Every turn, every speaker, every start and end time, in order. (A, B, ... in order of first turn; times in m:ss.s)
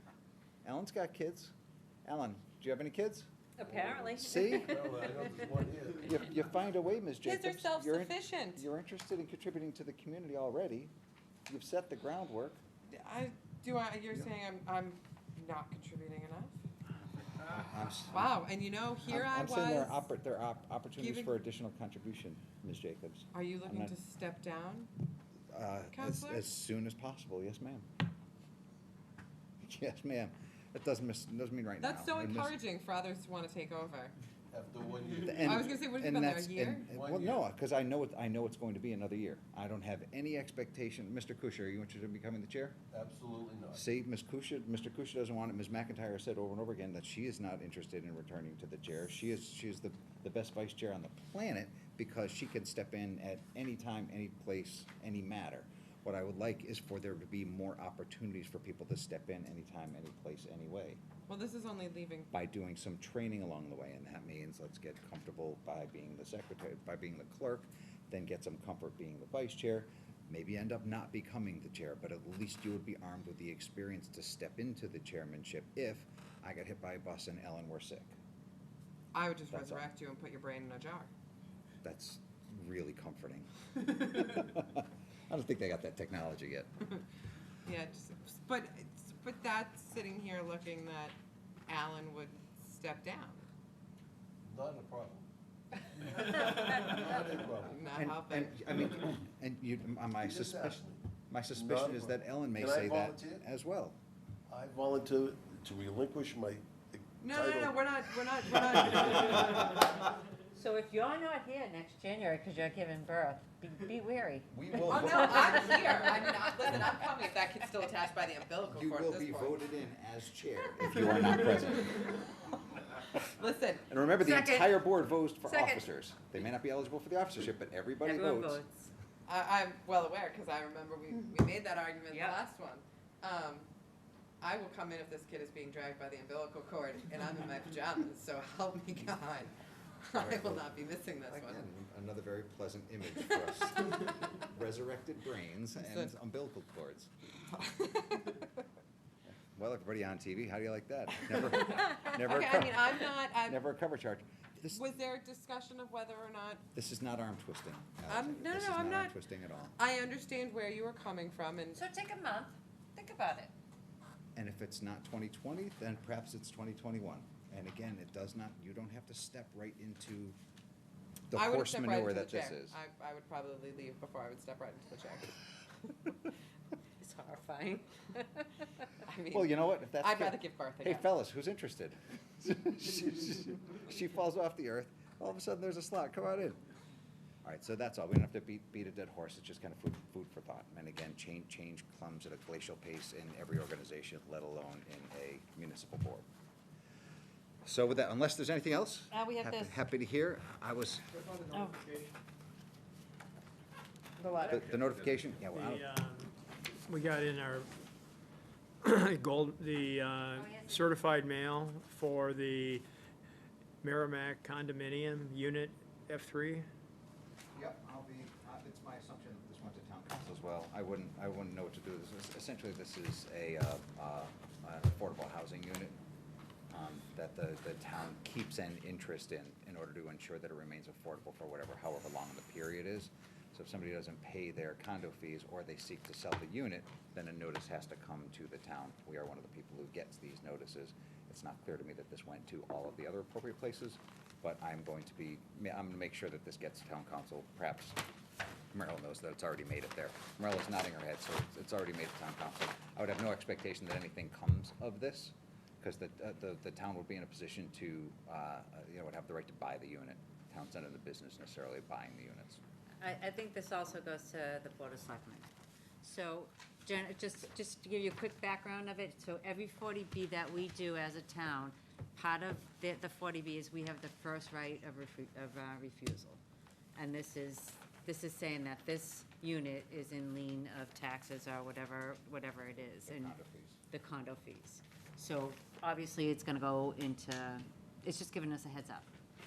0:00.6-0:01.5 A
0:02.0-0:03.3 A
0:03.6-0:05.3 B
0:03.6-0:06.4 C
0:04.2-0:04.8 A
0:05.9-0:10.9 A
0:07.2-0:08.7 D
0:11.5-0:12.6 A
0:12.9-0:16.6 D
0:17.3-0:18.3 A
0:18.1-0:20.0 D
0:19.1-0:23.9 A
0:21.0-0:21.3 D
0:23.3-0:24.9 D
0:25.5-0:27.8 A
0:25.9-0:26.4 D
0:29.6-0:32.5 A
0:31.8-0:34.1 D
0:34.5-0:35.8 C
0:35.2-0:42.8 A
0:35.4-0:36.8 D
0:36.9-0:37.5 C
0:42.9-0:43.8 C
0:43.7-1:01.0 A
1:01.3-1:02.3 D
1:02.3-1:18.1 A
1:19.1-1:21.1 D
1:19.5-1:19.8 A
1:21.8-1:26.7 A
1:27.6-1:31.1 D
1:31.7-1:33.4 D
1:34.4-1:35.3 C
1:35.9-1:37.8 C
1:37.6-1:38.6 D
1:37.9-1:44.0 A
1:40.2-1:41.0 C
1:41.5-1:43.4 C
1:44.5-1:47.9 C
1:47.2-1:49.6 D
1:48.9-1:49.9 A
1:50.5-1:56.0 B
1:54.5-1:55.9 A
1:54.9-1:59.6 D
1:58.7-2:02.2 A
2:03.2-2:04.4 D
2:03.9-2:08.6 A
2:04.2-2:04.8 B
2:05.4-2:05.9 B
2:08.0-2:08.9 B
2:09.2-2:13.7 D
2:12.1-2:12.4 B
2:14.4-2:19.5 D
2:20.0-2:21.7 D
2:20.2-2:20.6 A
2:21.3-2:27.1 A
2:25.8-2:26.1 D
2:27.5-2:28.4 D
2:29.3-2:32.8 A
2:31.8-2:33.6 D
2:33.4-2:34.8 A
2:34.7-2:36.6 D
2:36.7-2:39.8 A
2:38.1-2:39.1 D
2:39.8-2:41.8 D
2:41.7-2:43.5 B
2:44.4-2:50.4 A
2:51.3-2:52.8 A
2:51.3-2:55.4 D
2:57.0-2:58.8 B
2:59.0-3:01.1 D
2:59.3-3:06.6 A
3:07.4-3:16.2 A
3:17.6-3:21.1 A
3:19.1-3:19.8 B
3:21.5-3:21.8 B
3:24.2-3:24.7 B
3:24.4-3:25.8 A
3:25.5-3:26.3 E
3:26.9-3:27.7 E
3:28.8-3:32.8 E
3:30.3-3:31.0 B
3:33.8-3:36.7 E
3:37.5-3:46.0 A
3:46.7-4:08.0 A
4:08.7-4:22.6 A
4:23.0-4:25.5 B
4:26.0-4:36.4 B
4:37.0-4:43.4 B
4:43.0-4:43.8 A
4:43.9-4:49.1 B